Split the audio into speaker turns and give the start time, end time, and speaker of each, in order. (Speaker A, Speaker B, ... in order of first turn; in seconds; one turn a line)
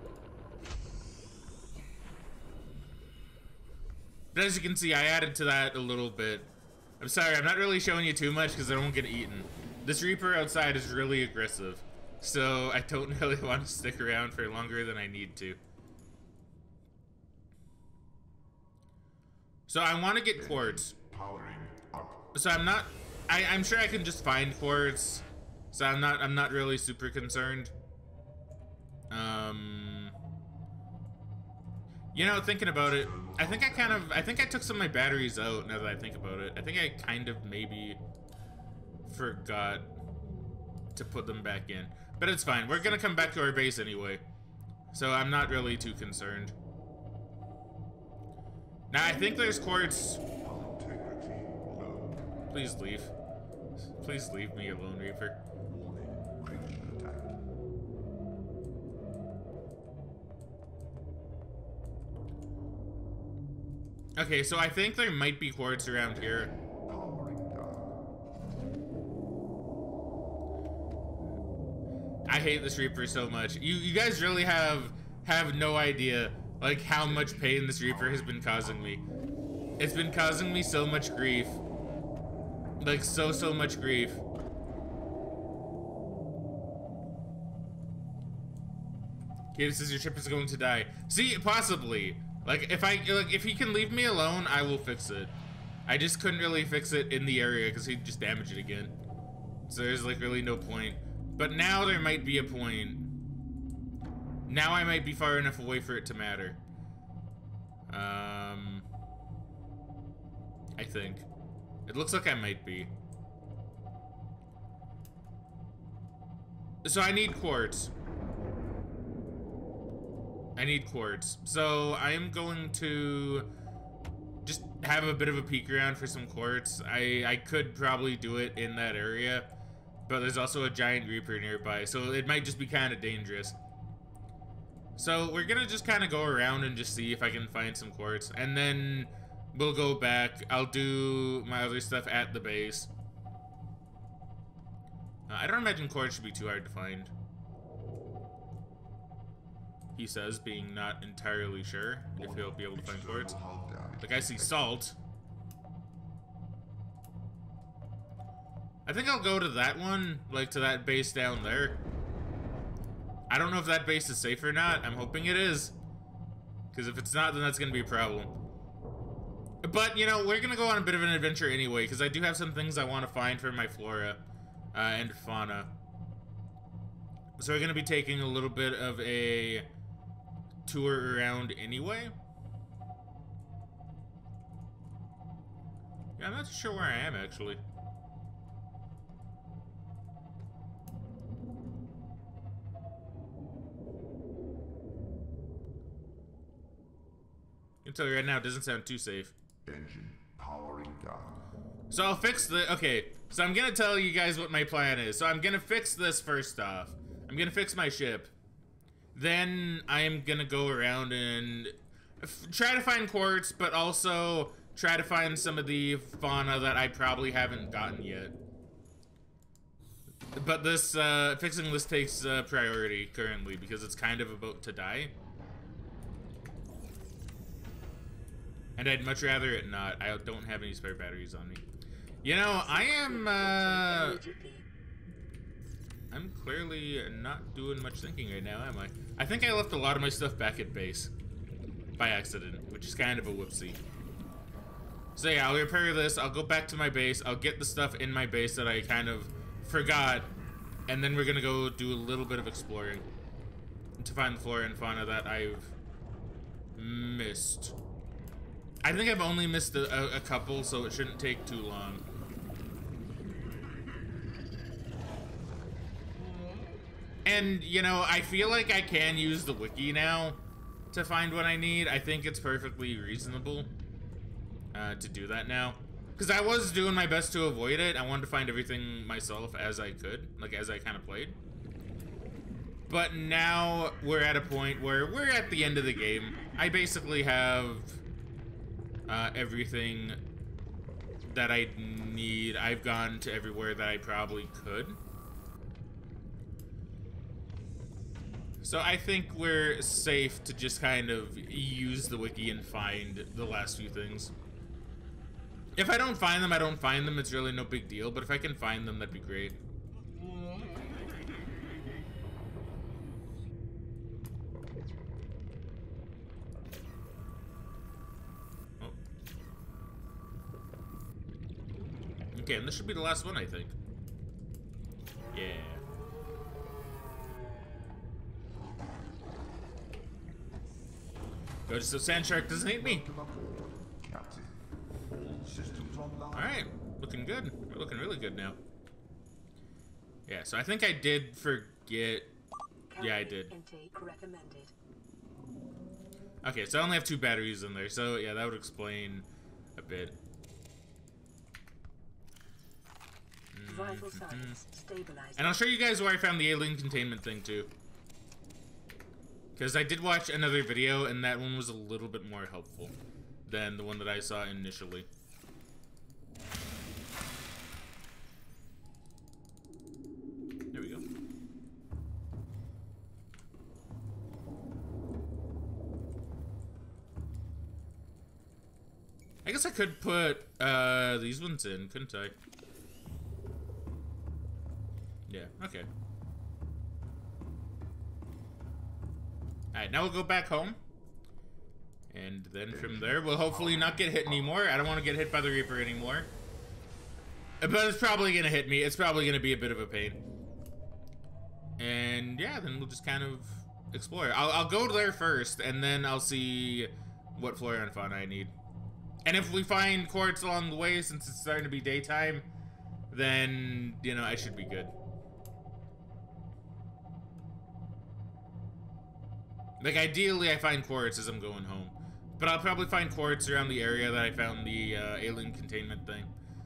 Speaker A: 4.3-15.6
Speaker A: 19.7-20.9
Speaker B: 20.3-22.3
Speaker A: 22.3-27.7
Speaker A: 29.1-30.1
Speaker A: 32.1-38.0
Speaker B: 33.1-34.2
Speaker A: 39.0-39.9
Speaker A: 40.9-44.2
Speaker A: 44.9-46.5
Speaker A: 48.9-50.2
Speaker B: 50.3-52.4
Speaker A: 52.5-53.1
Speaker A: 53.9-55.4
Speaker B: 55.6-57.4
Speaker A: 64.2-66.5
Speaker B: 66.1-68.1
Speaker A: 72.3-79.0
Speaker B: 77.0-78.8
Speaker A: 79.8-81.6
Speaker A: 82.8-84.2
Speaker A: 89.5-95.3
Speaker A: 95.9-98.9
Speaker A: 99.7-103.1
Speaker A: 104.5-106.6
Speaker A: 107.9-108.8
Speaker A: 110.8-111.3
Speaker A: 111.9-112.9
Speaker A: 116.8-117.9
Speaker A: 120.5-123.5
Speaker A: 124.4-129.5
Speaker A: 130.1-133.6
Speaker A: 135.0-142.9
Speaker A: 145.3-147.1
Speaker A: 149.9-153.4
Speaker B: 152.1-154.6
Speaker A: 154.0-155.0
Speaker A: 158.8-161.8
Speaker A: 163.3-165.8
Speaker A: 166.7-168.3
Speaker A: 169.6-174.2
Speaker A: 174.7-175.7
Speaker A: 177.4-179.7
Speaker A: 180.7-182.1
Speaker A: 186.2-187.6
Speaker A: 197.8-199.3
Speaker B: 199.6-201.5
Speaker A: 201.9-208.3
Speaker A: 209.1-218.3
Speaker A: 220.3-225.1
Speaker A: 228.8-231.6
Speaker A: 232.2-234.2
Speaker C: 232.5-234.7
Speaker A: 236.1-241.1
Speaker A: 242.0-243.8
Speaker A: 245.2-250.3
Speaker A: 250.9-253.1
Speaker A: 254.0-255.8
Speaker A: 256.8-257.8
Speaker A: 258.8-262.0
Speaker A: 267.2-270.4
Speaker A: 270.9-273.7
Speaker A: 274.7-281.4
Speaker A: 282.9-288.0
Speaker A: 289.1-290.2
Speaker A: 291.2-295.0
Speaker A: 298.6-304.3
Speaker A: 305.8-309.6
Speaker A: 322.3-323.8
Speaker A: 325.3-325.8
Speaker A: 331.7-333.1
Speaker B: 332.7-336.7
Speaker A: 336.3-338.6
Speaker A: 340.3-342.3
Speaker C: 342.9-344.7
Speaker A: 343.0-343.5
Speaker A: 346.4-350.1
Speaker A: 353.5-354.6
Speaker C: 353.6-355.6
Speaker A: 355.4-357.7
Speaker A: 359.6-362.9
Speaker A: 363.4-365.1
Speaker A: 370.7-371.0
Speaker A: 379.4-382.3
Speaker A: 385.3-385.9
Speaker A: 389.7-390.8
Speaker A: 392.1-396.3
Speaker B: 392.7-394.5
Speaker A: 397.6-400.2
Speaker A: 401.8-408.5
Speaker A: 409.2-412.5
Speaker A: 413.1-414.9
Speaker A: 419.8-426.3